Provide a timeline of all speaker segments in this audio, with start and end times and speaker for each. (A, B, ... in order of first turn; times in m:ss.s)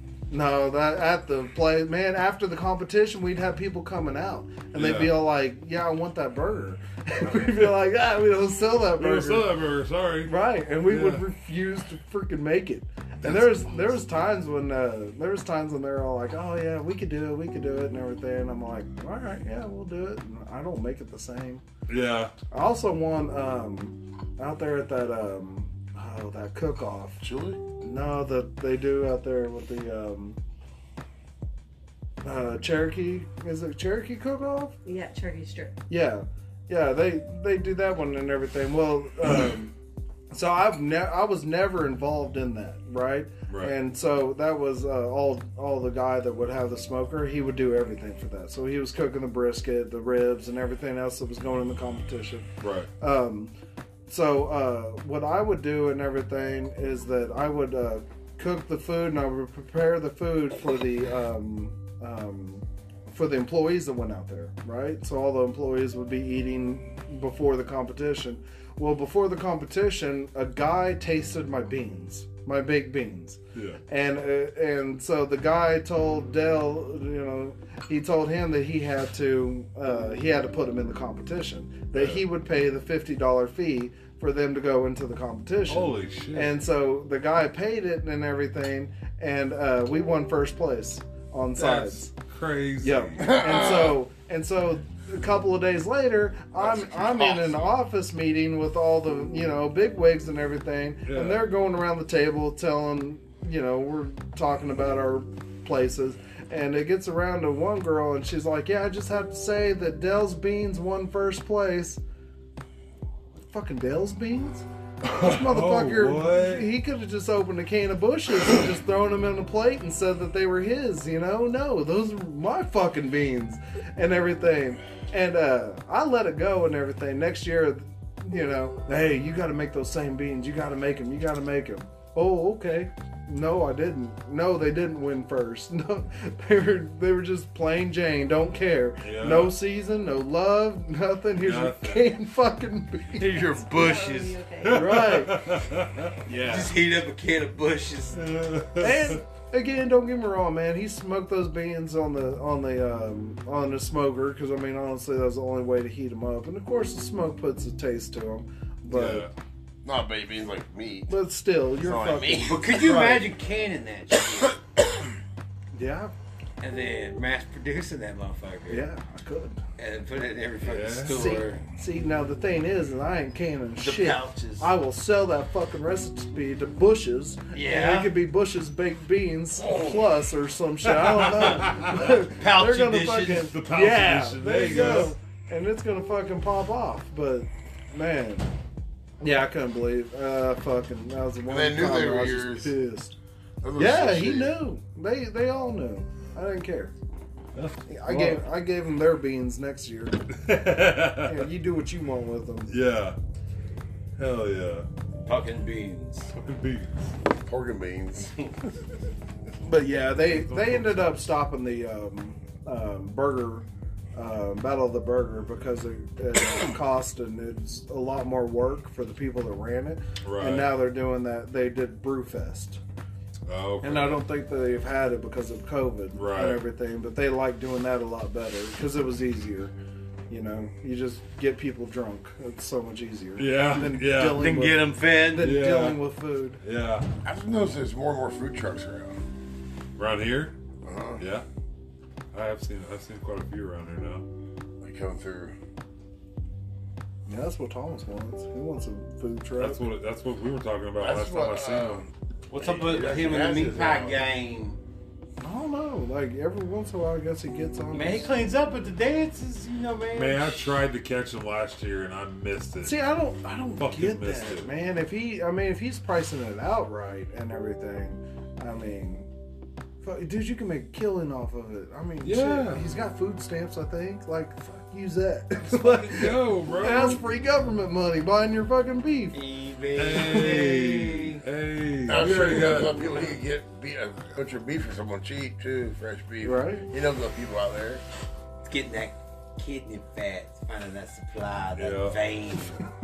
0:00.3-0:09.6 A
0:04.7-0:05.2 B
0:08.9-0:11.2 B
0:10.2-0:21.6 A
0:13.2-0:13.6 B
0:13.6-0:13.9 C
0:21.9-0:22.3 B
0:22.5-0:27.2 A
0:27.2-0:27.6 C
0:27.8-0:30.4 A
0:32.2-0:34.8 A
0:34.8-0:35.8 D
0:35.9-0:39.7 A
0:40.3-0:52.5 A
0:43.5-0:43.7 B
0:52.6-0:52.9 B
0:53.0-0:53.5 A
0:54.1-1:32.1 A
1:13.6-1:13.8 B
1:21.9-1:22.2 B
1:25.7-1:26.6 B
1:31.6-1:33.4 B
1:32.8-1:52.0 A
1:33.2-1:34.0 C
1:36.6-1:37.7 C
1:41.1-1:41.4 B
1:53.4-2:23.6 A
1:55.0-1:56.7 B
2:19.0-2:19.6 B
2:21.4-2:22.0 B
2:23.2-2:24.4 E
2:23.6-2:25.2 D
2:24.6-2:26.2 B
2:24.7-2:25.4 A
2:26.3-2:26.7 A
2:26.3-2:28.2 E
2:28.1-2:29.2 B
2:28.8-2:39.3 A
2:38.9-2:39.3 B
2:39.8-2:41.2 C
2:41.1-2:43.3 A
2:41.8-2:42.7 C
2:42.4-2:44.6 E
2:45.7-2:46.1 A
2:46.6-2:48.9 E
2:48.7-2:49.6 A
2:49.8-2:51.6 E
2:50.6-2:51.4 B
2:51.0-3:08.5 A
2:53.8-2:54.7 E
2:57.5-2:58.2 E
2:59.6-3:00.0 C
3:00.9-3:02.1 B
3:02.0-3:03.5 E
3:03.3-3:05.2 B
3:09.2-3:13.2 A
3:11.5-3:12.7 C
3:13.6-3:14.5 C
3:13.8-3:16.9 A
3:17.6-3:18.4 B
3:17.9-3:20.3 A
3:20.3-3:21.5 B
3:21.2-3:22.8 A
3:22.7-3:23.2 B
3:24.2-3:24.9 B
3:25.3-3:26.3 E
3:26.3-3:27.1 B
3:27.4-3:28.5 C
3:29.6-3:42.8 A
3:30.2-3:31.3 B
3:40.2-3:40.7 B
3:43.5-3:44.2 B
3:43.8-3:49.7 A
3:46.1-3:46.6 B
3:50.3-3:56.6 A
3:53.4-3:54.7 B
3:54.3-3:55.6 E
3:55.4-3:56.0 B
3:56.6-3:57.1 B
3:57.2-3:59.2 C
4:00.0-4:00.5 B
4:00.8-4:01.2 C
4:01.2-4:01.5 B
4:02.3-4:04.2 B
4:04.8-4:05.6 C
4:07.3-4:09.8 A
4:09.6-4:12.1 B
4:11.0-4:12.1 C
4:12.5-4:14.8 E
4:12.6-4:14.2 C
4:15.4-4:18.3 A
4:17.9-4:20.7 E
4:20.1-4:23.0 B
4:22.8-4:29.3 A
4:23.8-4:24.7 B
4:30.0-4:39.4 A
4:32.2-4:32.8 B
4:35.6-4:37.2 B
4:39.3-4:41.4 E
4:40.0-4:43.3 B
4:42.1-4:48.0 C
4:46.4-4:46.9 A
4:48.6-4:52.8 E
4:51.8-4:52.2 B